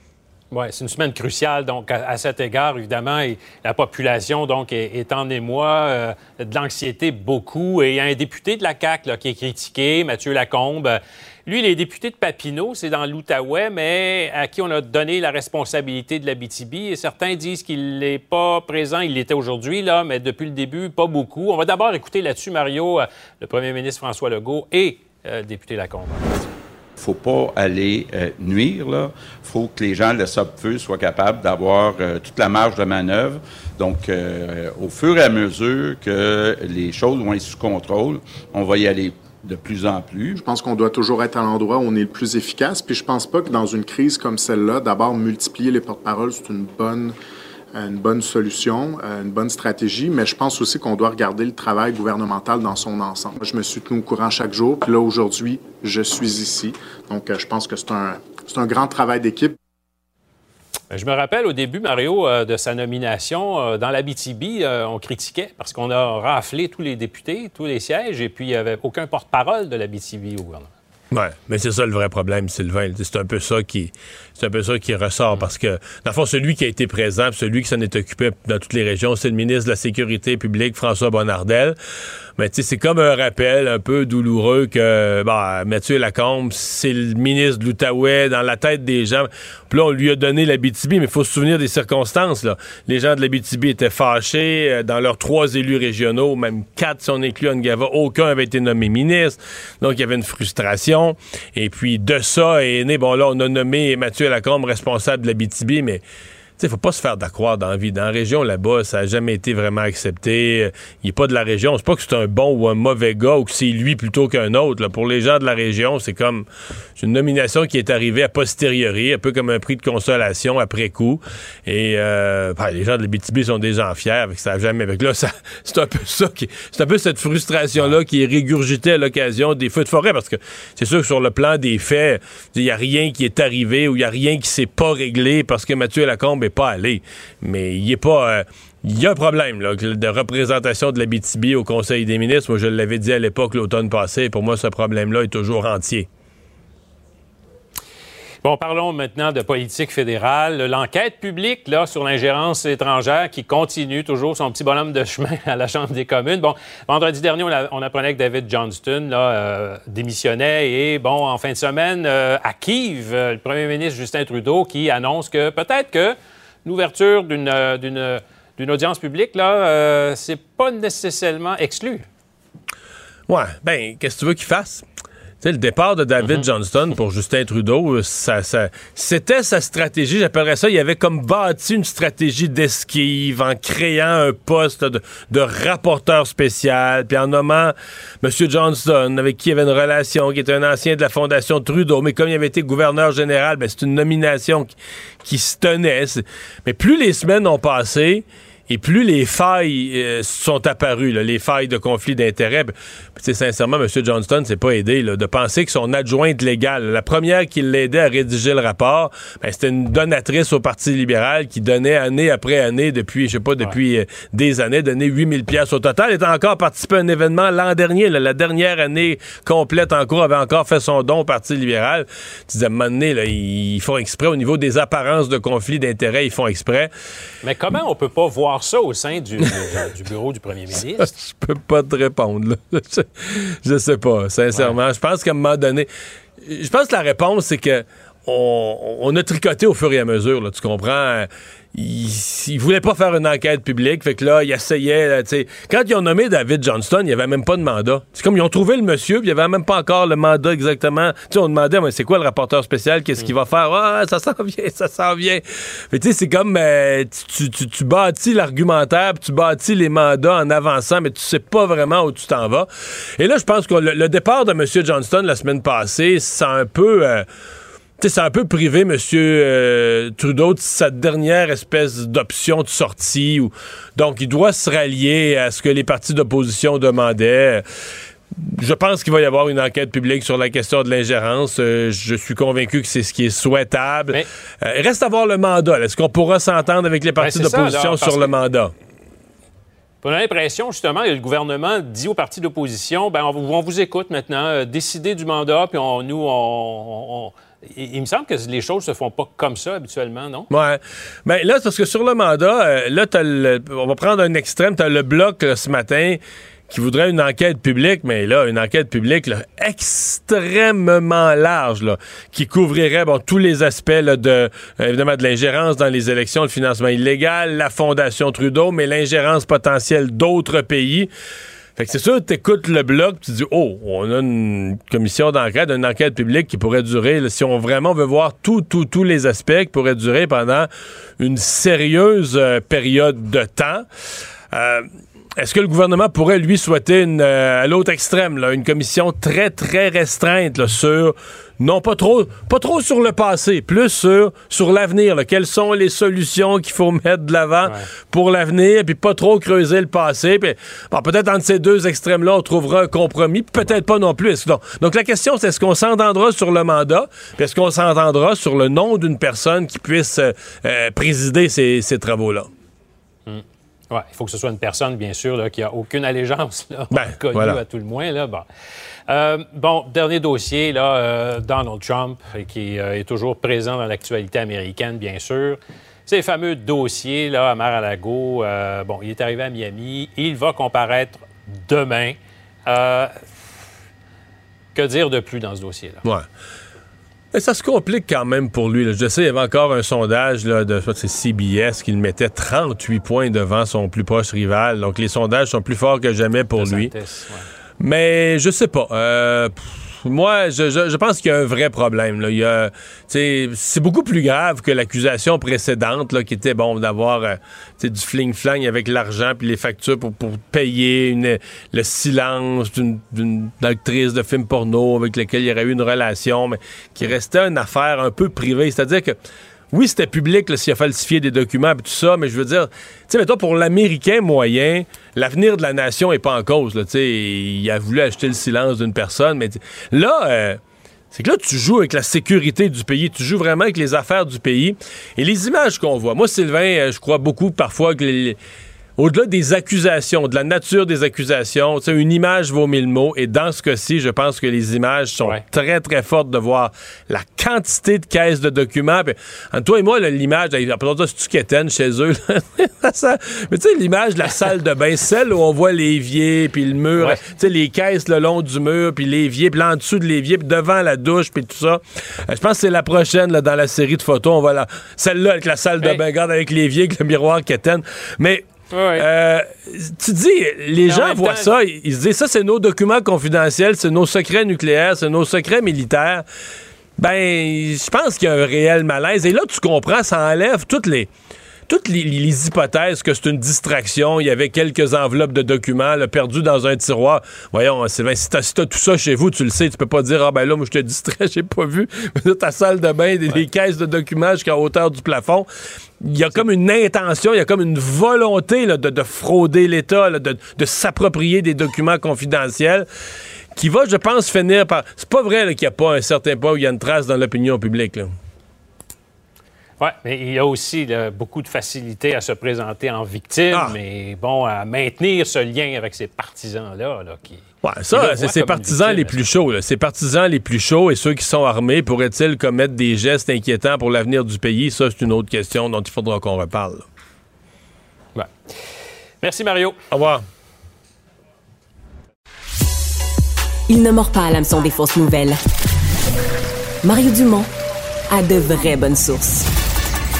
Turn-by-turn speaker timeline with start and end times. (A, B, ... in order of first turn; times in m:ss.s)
0:00.5-0:26.5 A
0:27.0-0:40.4 B
0:40.4-0:47.2 C
0:47.7-0:59.6 C
1:00.9-1:10.7 A
1:11.1-1:21.8 D
1:22.4-1:46.0 D
1:46.6-1:56.5 D
1:57.0-2:26.1 D
2:28.4-2:52.1 A
2:53.3-2:54.8 D
2:55.4-3:14.7 D
2:56.2-2:56.5 A
3:15.2-3:46.9 D
3:47.4-3:51.2 A
3:51.0-3:55.9 D
3:54.5-3:54.8 A
3:56.4-4:27.3 D
4:28.0-4:37.6 D
4:38.3-4:48.7 D
4:47.2-4:48.4 A
4:50.0-5:00.5 A
5:00.5-5:21.1 D
5:21.8-5:30.7 D
5:31.2-5:33.8 D
5:34.5-6:02.5 D
6:03.3-6:08.5 A
6:06.9-6:07.6 D
6:09.1-6:23.2 A
6:24.7-6:26.0 A
6:27.3-6:36.9 D
6:36.6-6:37.5 A
6:37.8-6:59.2 D
6:59.7-7:10.6 D
7:11.1-7:18.4 D
7:19.0-7:56.2 D
7:37.0-7:37.3 A
7:48.7-7:49.0 A
7:50.8-7:51.5 A
7:57.0-8:01.1 D
8:01.7-8:15.5 D
8:16.0-8:22.9 D
8:23.6-8:28.1 D
8:29.8-8:39.2 A
8:37.6-8:46.9 D
8:49.2-8:49.8 A
8:49.9-8:50.2 D
8:53.7-8:55.4 E
8:56.8-8:57.5 E
8:58.1-8:59.5 E